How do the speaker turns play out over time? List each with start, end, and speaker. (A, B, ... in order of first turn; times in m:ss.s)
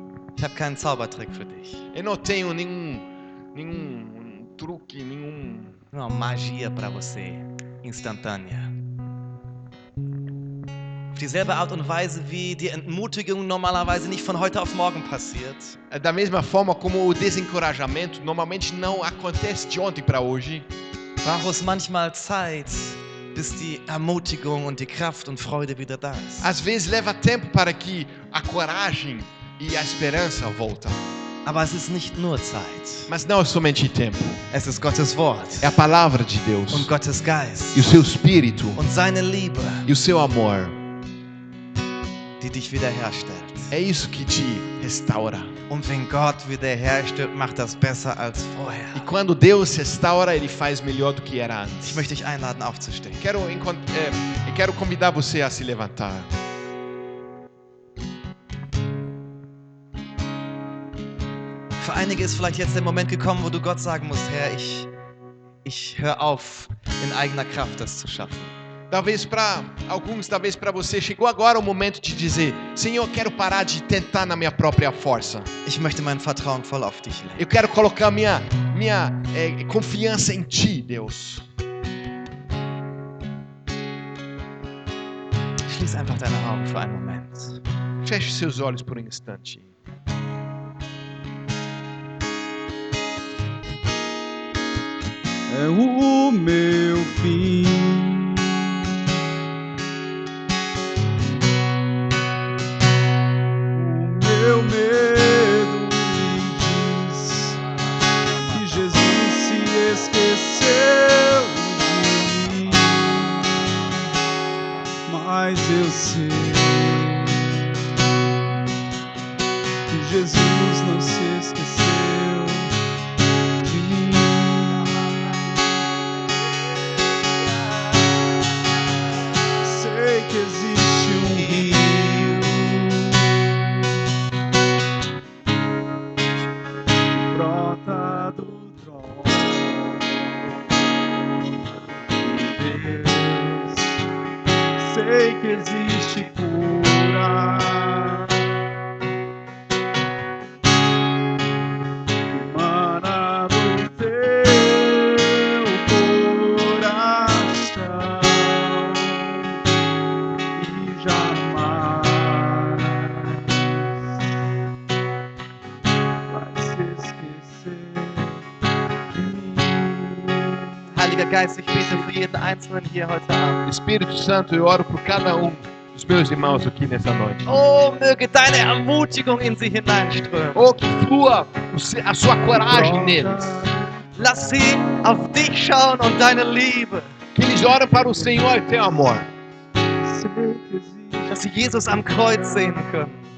0:00.4-0:01.9 A
0:01.9-0:05.8 B
0:05.9-0:08.8 A
0:11.1-0:15.8 A
0:15.9-0:20.7 B
0:21.2-0:26.5 A
0:26.4-0:31.1 B
0:31.4-0:33.1 A
0:33.1-0:34.4 B
0:34.5-0:35.8 A
0:35.6-0:36.9 B
0:36.7-0:38.0 A
0:37.7-0:38.8 B
0:38.8-0:39.9 A
0:39.9-0:40.8 B
0:42.4-0:43.7 A
0:43.7-0:45.5 B
0:45.7-0:49.1 A
0:48.9-0:52.1 B
0:51.8-0:53.3 A
0:53.2-0:56.3 B
1:01.8-1:04.9 A
1:05.6-1:08.6 A
1:08.9-1:15.5 B
1:15.6-1:17.5 A
1:17.4-1:21.5 B
1:25.7-1:27.6 A
1:28.0-1:29.7 B
1:35.5-1:38.9 C
1:43.7-1:47.6 C
1:48.5-1:53.5 C
1:55.1-1:58.0 C
1:59.9-2:02.7 C
2:03.6-2:05.0 C
2:09.6-2:13.5 C
2:11.4-2:12.5 A
2:17.1-2:24.0 C
2:24.8-2:28.6 C
2:32.3-2:39.6 C
2:40.5-2:44.1 C
2:46.3-2:48.5 C
2:49.1-2:50.8 C
2:50.9-2:53.7 A
2:51.8-2:52.0 C
2:53.7-2:57.6 B
2:57.5-3:00.7 A
3:00.5-3:03.6 B
3:02.5-3:03.9 C
3:04.2-3:07.2 A
3:07.4-3:09.3 B
3:07.9-3:08.5 C
3:10.0-3:12.9 C
3:11.3-3:13.2 A